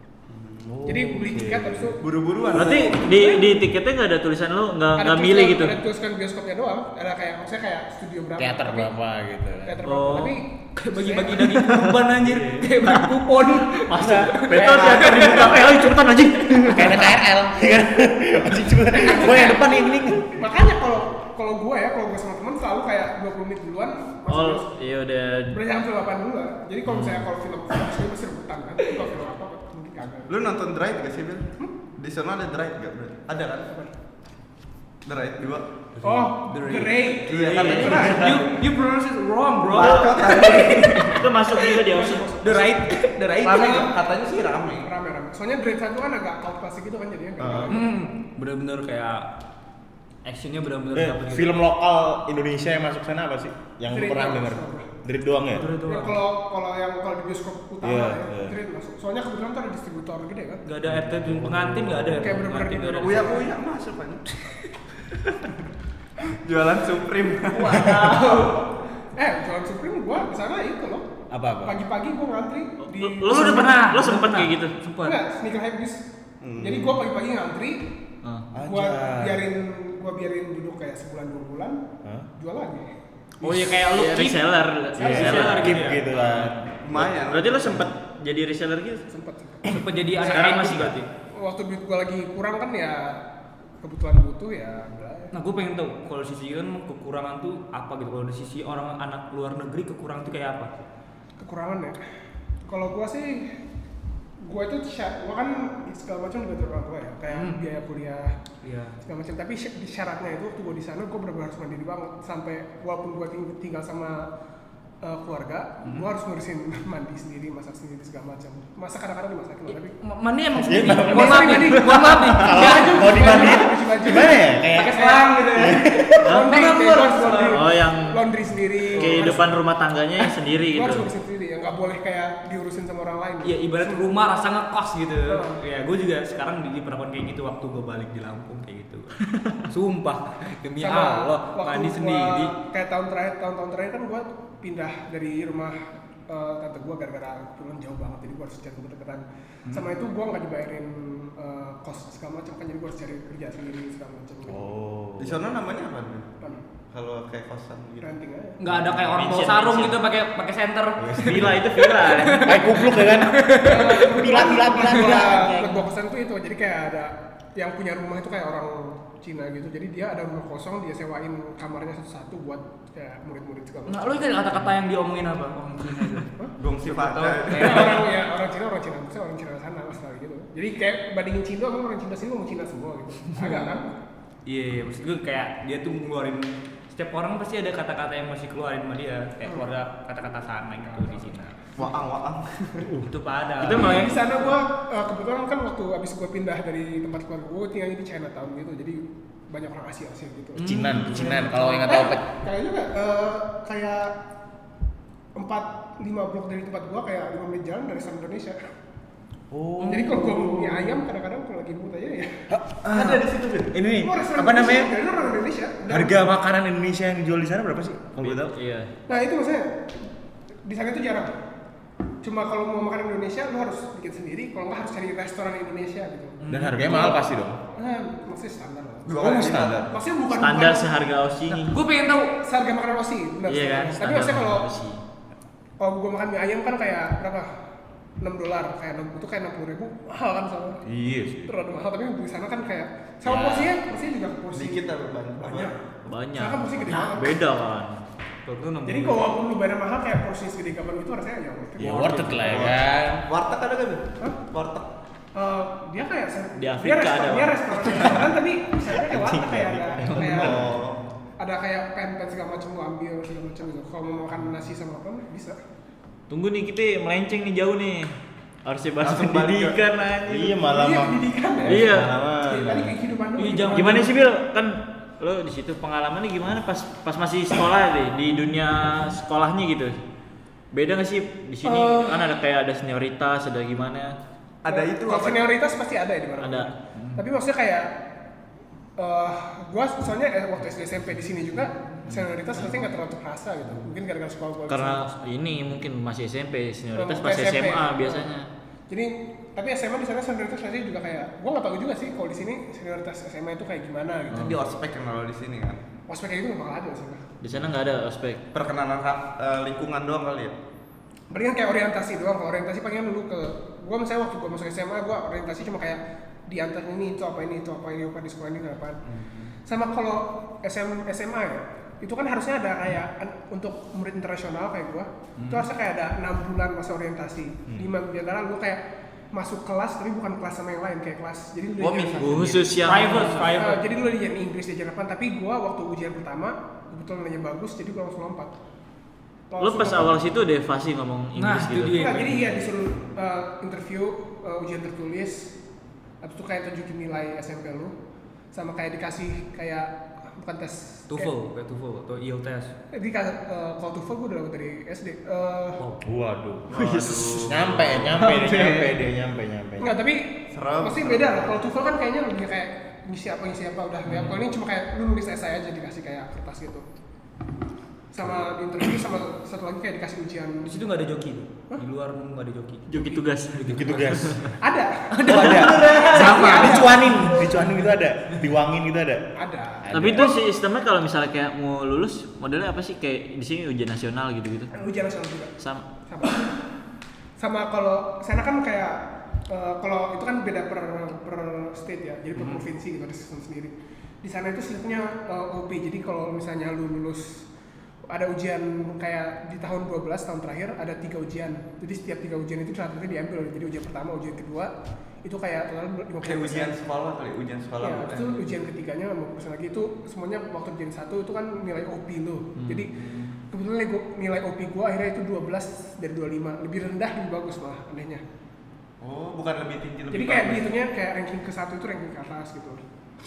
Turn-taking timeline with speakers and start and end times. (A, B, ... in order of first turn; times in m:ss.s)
0:00.6-0:01.9 A
0:00.8-0:03.6 B
0:02.0-0:03.0 C
0:02.5-0:05.8 D
0:05.0-0:08.9 B
0:08.4-0:09.8 A
0:09.6-0:11.6 B
0:09.8-0:10.4 D
0:10.8-0:15.9 E
0:13.9-0:17.2 D
0:13.9-0:15.6 A
0:14.6-0:15.6 C
0:16.5-0:17.0 E
0:16.7-0:20.4 A
0:18.8-0:24.7 B
0:24.3-0:25.6 D
0:25.5-0:30.4 B
0:30.3-0:33.7 C
0:33.6-0:33.9 B
0:35.0-0:35.7 C
0:36.0-0:41.9 E
0:36.0-0:38.4 B
0:37.3-0:38.4 C
0:39.6-0:41.2 C
0:41.0-0:42.4 D
0:41.8-0:42.9 B
0:42.4-0:43.9 E
0:42.6-0:44.9 C
0:43.4-0:43.9 B
0:44.7-0:47.9 B
0:47.4-0:47.8 C
0:47.7-0:49.3 E
0:50.2-0:51.5 E
0:50.9-0:55.7 A
0:53.9-0:54.9 B
0:55.5-0:56.2 E
0:55.7-1:00.6 B
0:57.8-0:58.6 A
1:00.7-1:03.5 E
1:00.9-1:02.4 A
1:02.2-1:03.5 B
1:03.0-1:04.6 C
1:06.2-1:08.6 C
1:07.5-1:13.8 B
1:11.3-1:11.8 A
1:12.8-1:14.7 D
1:13.3-1:15.2 E
1:15.0-1:16.0 B
1:16.4-1:17.0 C
1:16.6-1:18.0 B
1:18.5-1:19.4 A
1:18.6-1:22.9 B
1:23.4-1:26.5 E
1:23.8-1:26.0 D
1:25.0-1:27.2 A
1:26.8-1:27.9 C
1:27.2-1:29.0 D
1:29.1-1:30.7 B
1:29.6-1:31.1 E
1:30.2-1:31.1 D
1:31.3-1:33.2 B
1:33.8-1:35.3 B
1:35.3-1:40.7 E
1:41.4-1:42.0 B
1:42.6-1:43.6 B
1:44.4-1:48.3 B
1:47.3-1:47.6 E
1:48.6-1:49.0 E
1:49.0-1:54.3 B
1:55.0-1:59.9 B
2:00.0-2:03.6 E
2:00.6-2:06.3 A
2:00.7-2:09.6 B
2:04.7-2:07.7 E
2:06.3-2:06.6 D
2:07.5-2:08.2 D
2:08.9-2:11.1 D
2:09.0-2:09.4 E
2:10.2-2:14.0 B
2:13.4-2:22.5 E
2:15.3-2:15.6 B
2:20.8-2:34.6 B
2:34.4-2:35.4 A
2:35.2-2:36.3 C
2:36.9-2:38.1 C
2:38.0-2:38.6 B
2:38.6-2:44.4 E
2:38.7-2:39.1 A
2:39.1-2:39.9 D
2:41.0-2:41.6 A
2:41.2-2:42.6 D
2:42.3-2:45.9 A
2:43.6-2:54.6 B
2:53.9-2:56.3 E
2:56.6-2:58.0 C
2:56.8-2:58.1 E
2:57.5-3:04.0 B
3:03.4-3:03.8 E
3:04.4-3:11.7 E
3:09.4-3:09.7 B
3:10.8-3:11.3 B
3:11.8-3:12.9 C
3:12.9-3:14.2 E
3:13.6-3:14.2 D
3:13.7-3:24.2 B
3:20.6-3:21.9 E
3:20.6-3:22.2 A
3:25.4-3:28.6 B
3:29.5-3:30.8 A
3:29.8-3:30.3 E
3:29.9-3:32.4 B
3:32.5-3:35.0 A
3:32.9-3:33.7 C
3:34.0-3:36.2 B
3:35.9-3:38.5 A
3:38.2-3:38.9 D
3:39.1-3:40.1 B
3:40.6-3:41.4 B
3:42.2-3:47.2 B
3:46.4-3:47.1 E
3:46.5-3:47.6 A
3:47.7-3:51.0 B
3:49.1-3:50.0 C
3:49.2-3:49.9 A
3:50.3-3:51.8 D
3:51.5-3:52.4 E
3:52.3-3:54.7 B
3:53.5-3:55.0 D
3:55.8-3:57.5 B
3:58.2-4:00.8 B
4:00.8-4:01.5 A
4:01.5-4:04.9 B
4:03.2-4:03.7 D
4:04.5-4:05.7 C
4:05.4-4:05.7 B
4:06.1-4:08.0 D
4:06.4-4:07.4 B
4:08.4-4:09.3 E
4:08.8-4:12.3 B
4:11.8-4:13.2 A
4:11.9-4:12.2 D
4:11.9-4:12.4 E
4:12.3-4:14.9 C
4:15.4-4:20.6 B
4:16.6-4:18.3 D
4:19.1-4:20.8 A
4:20.1-4:21.0 C
4:21.4-4:25.6 B
4:26.3-4:28.1 D
4:28.6-4:30.6 D
4:29.0-4:29.8 C
4:30.3-4:32.9 A
4:30.7-4:34.1 B
4:31.7-4:32.1 D
4:33.4-4:34.2 E
4:33.7-4:40.0 D
4:40.7-4:44.1 D
4:41.6-4:42.4 B
4:44.6-4:45.5 C
4:44.7-4:47.9 B
4:46.4-4:46.7 D
4:47.0-4:47.2 E
4:49.0-4:55.1 B
4:54.7-4:58.5 D
4:57.0-4:58.3 B
4:58.9-5:04.6 B
5:04.3-5:05.8 C
5:06.1-5:07.2 B
5:07.4-5:08.4 D
5:08.5-5:10.6 C
5:11.3-5:19.0 B
5:19.7-5:28.8 B
5:25.4-5:25.6 E
5:29.3-5:32.4 B
5:31.8-5:33.6 C
5:32.2-5:33.5 D
5:32.8-5:33.8 E
5:33.6-5:38.6 B
5:39.5-5:40.2 B
5:39.6-5:42.3 D
5:41.4-5:42.6 E
5:42.0-5:45.5 B
5:46.2-5:48.0 B
5:48.5-5:51.3 B
5:51.1-5:52.7 E
5:52.9-5:55.8 B
5:55.8-5:56.0 E
5:56.0-6:00.0 A
5:56.7-5:58.7 C
5:59.8-6:06.9 B
6:00.5-6:01.6 C
6:04.0-6:04.4 E
6:08.1-6:10.8 B
6:10.6-6:14.4 E
6:12.9-6:14.5 D
6:13.8-6:14.5 A
6:14.6-6:17.4 B
6:15.2-6:17.4 E
6:15.3-6:19.3 A
6:15.3-6:16.8 D
6:19.4-6:20.4 B
6:19.8-6:20.3 A
6:19.9-6:24.8 D
6:24.7-6:25.5 B
6:25.6-6:25.8 D
6:26.1-6:26.5 B
6:27.4-6:37.5 B
6:32.4-6:32.6 E
6:38.1-6:44.7 B
6:45.2-6:46.8 B
6:46.2-6:48.5 C
6:47.8-6:53.0 B
6:53.0-6:53.3 C
6:53.5-6:58.2 B
6:59.0-7:00.7 C
7:00.1-7:02.8 B